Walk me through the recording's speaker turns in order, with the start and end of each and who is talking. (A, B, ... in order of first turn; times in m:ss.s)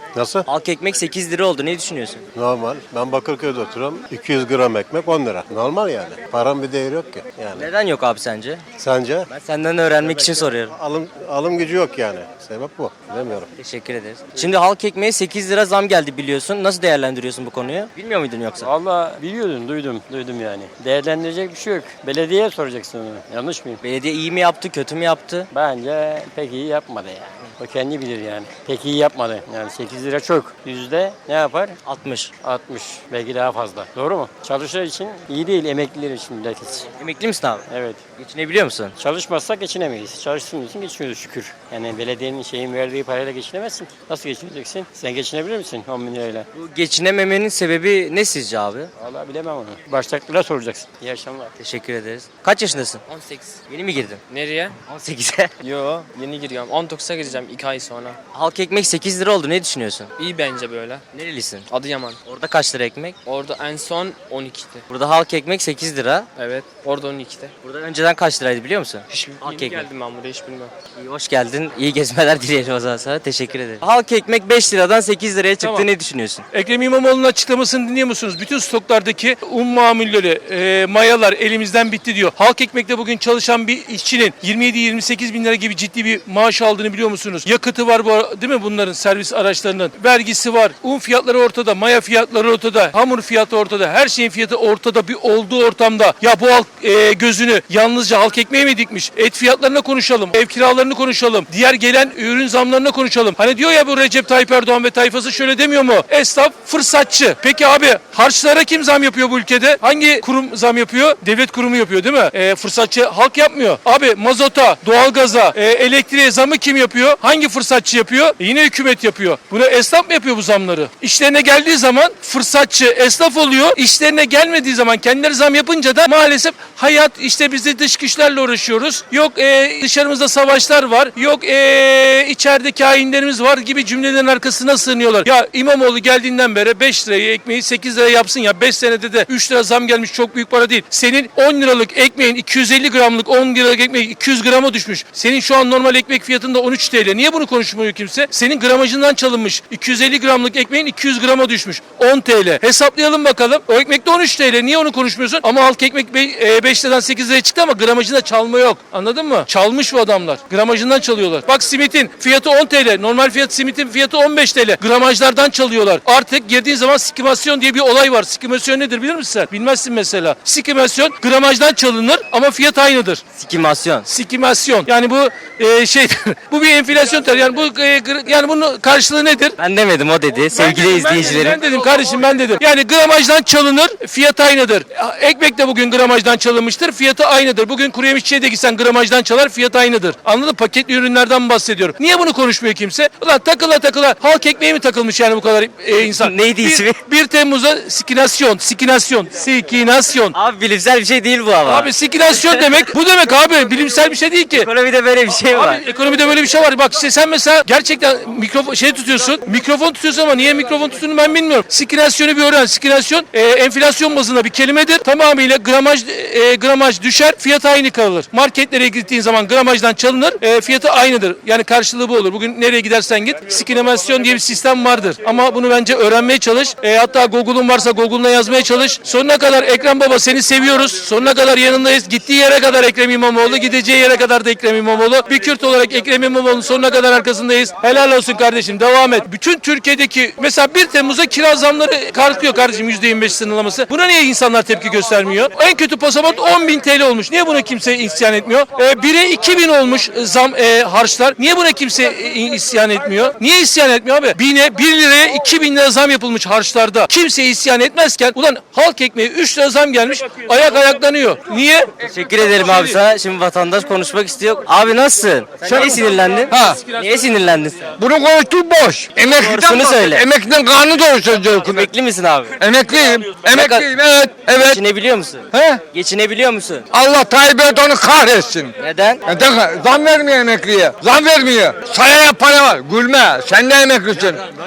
0:00.2-0:00.4 A
0:00.5-0:02.2 B
0:02.3-0:07.7 A
0:07.5-0:08.6 B
0:08.8-0:09.3 A
0:09.3-0:10.7 B
0:10.0-0:13.5 A
0:13.6-0:18.7 B
0:18.6-0:23.8 C
0:23.8-0:25.5 B
0:25.5-0:31.8 C
0:31.8-0:32.3 B
0:32.4-0:36.9 C
0:37.0-0:37.6 B
0:37.7-0:38.0 C
0:38.2-0:39.0 B
0:39.0-0:46.5 C
0:46.6-0:48.9 B
0:49.0-0:51.5 C
0:51.6-0:53.0 B
0:53.1-0:53.6 D
0:53.7-0:54.2 B
0:54.3-0:54.8 D
0:54.9-0:55.5 B
0:55.6-0:58.2 D
0:58.3-1:00.1 B
1:00.2-1:01.0 D
1:01.1-1:01.6 B
1:01.7-1:02.2 D
1:02.2-1:03.2 B
1:03.2-1:04.8 D
1:04.9-1:06.3 B
1:06.4-1:07.5 D
1:07.6-1:09.8 B
1:09.1-1:10.7 D
1:11.0-1:16.4 B
1:15.6-1:15.9 E
1:16.5-2:53.2 E
2:53.4-2:54.1 B
2:54.1-2:59.6 E
2:59.6-3:01.6 B
3:00.5-3:20.4 E
3:16.0-3:17.0 B
3:20.3-3:22.8 B
3:21.6-3:24.7 E
3:24.5-3:25.8 B
3:25.5-4:23.0 E
4:22.0-4:27.9 B
4:25.6-4:26.8 F
4:26.2-4:26.8 E
4:28.0-4:31.9 F
4:29.3-4:30.3 B
4:31.6-4:32.6 B
4:32.6-4:34.8 F
4:33.5-4:33.9 B
4:34.6-4:36.9 B
4:35.5-4:35.8 F
4:36.9-4:38.7 F
4:38.8-4:39.2 B
4:39.3-4:44.4 F